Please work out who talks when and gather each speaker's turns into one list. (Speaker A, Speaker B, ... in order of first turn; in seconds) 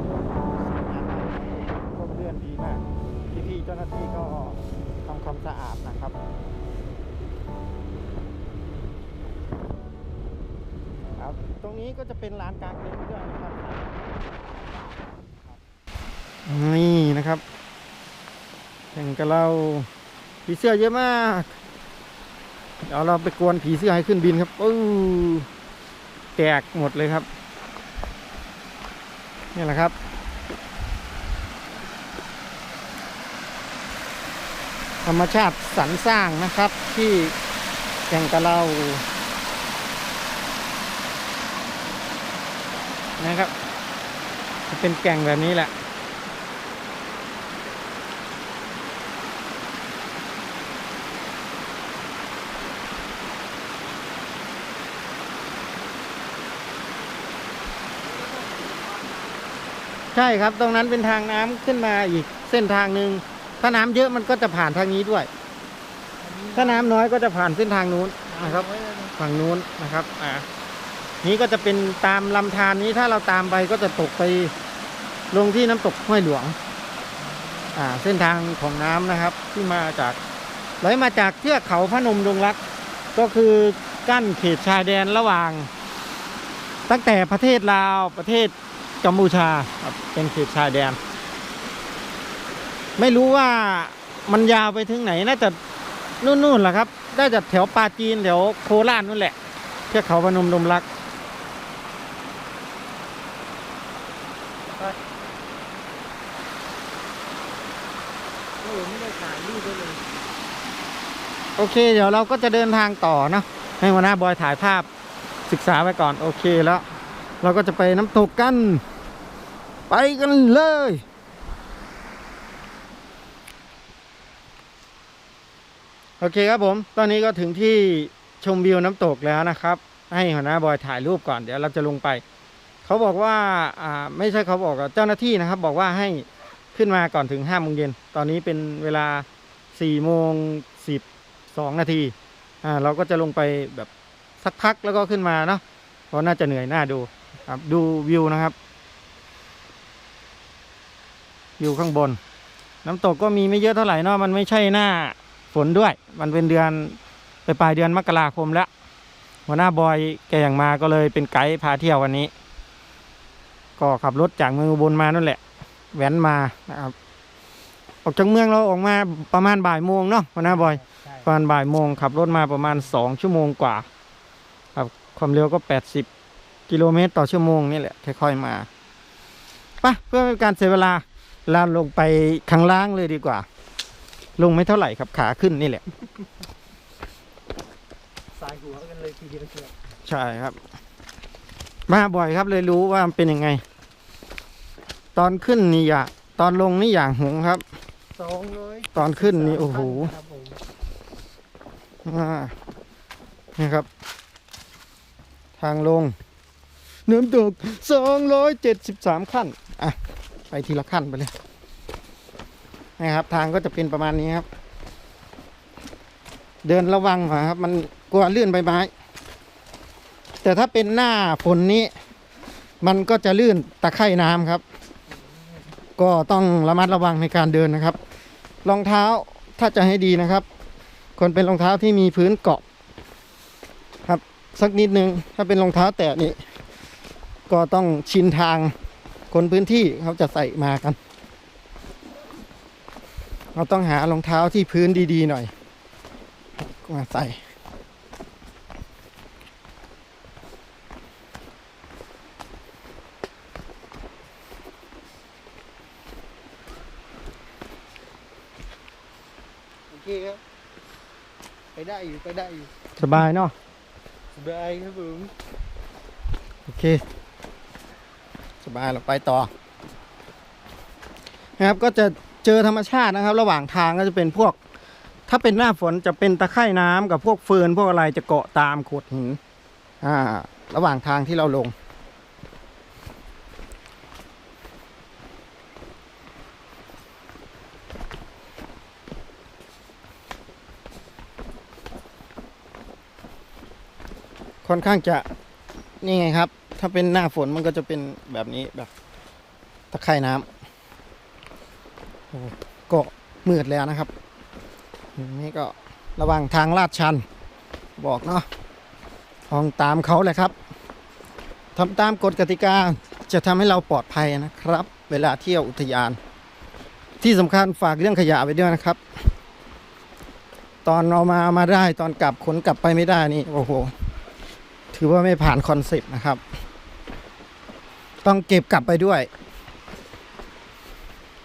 Speaker A: 0.3-6.1, 11.2-13.9, 16.4-17.4, 18.9-19.9, 20.4-21.5, 22.9-25.5, 26.4-27.3, 29.5-29.9, 35.0-37.3, 38.1-39.0, 43.2-43.5, 44.7-45.7, 60.1-65.3, 66.5-70.5, 71.2-74.5, 75.3-76.5, 77.7-80.2, 80.8-82.6, 83.1-85.7, 86.9-91.0, 93.0-95.6, 96.2-99.3, 99.9-100.8, 111.6-114.9, 115.5-116.8, 117.4-118.8, 119.9-121.0, 126.2-132.2, 132.8-148.5, 151.6-152.2, 152.8-158.7, 159.5-162.3, 163.8-165.4, 165.9-166.9, 168.0-173.9, 174.7-176.1, 176.7-178.7, 179.8-183.4, 184.4-185.8, 190.1-190.6, 191.9-193.6, 195.1-197.6, 198.9-200.1, 202.0-202.5, 203.6-203.9, 205.6-206.1, 207.1-210.0, 210.5-211.3, 213.0-214.4, 216.6-218.9, 220.4-221.9, 222.8-224.6, 226.0-228.0, 228.6-230.4, 231.2-232.6, 234.1-236.4, 237.5-238.7, 239.3-241.0, 243.5-245.5, 246.6-247.4, 263.0-263.5, 266.7-267.0, 268.6-269.5, 271.6-274.6, 275.3-279.4, 280.0-281.7, 294.6-295.3, 296.0-298.9, 299.9-300.5, 302.3-304.1, 305.1-307.2, 308.0-308.5, 309.5-310.5, 311.8-316.2, 317.2-319.0, 320.8-323.9, 324.9-326.4, 328.2-329.3
Speaker B: 58.3-58.8, 66.2-67.0, 68.3-69.1, 108.6-110.0, 170.4-171.3, 188.3-189.7, 198.1-200.6, 259.9-260.4, 261.7-262.7, 264.4-265.3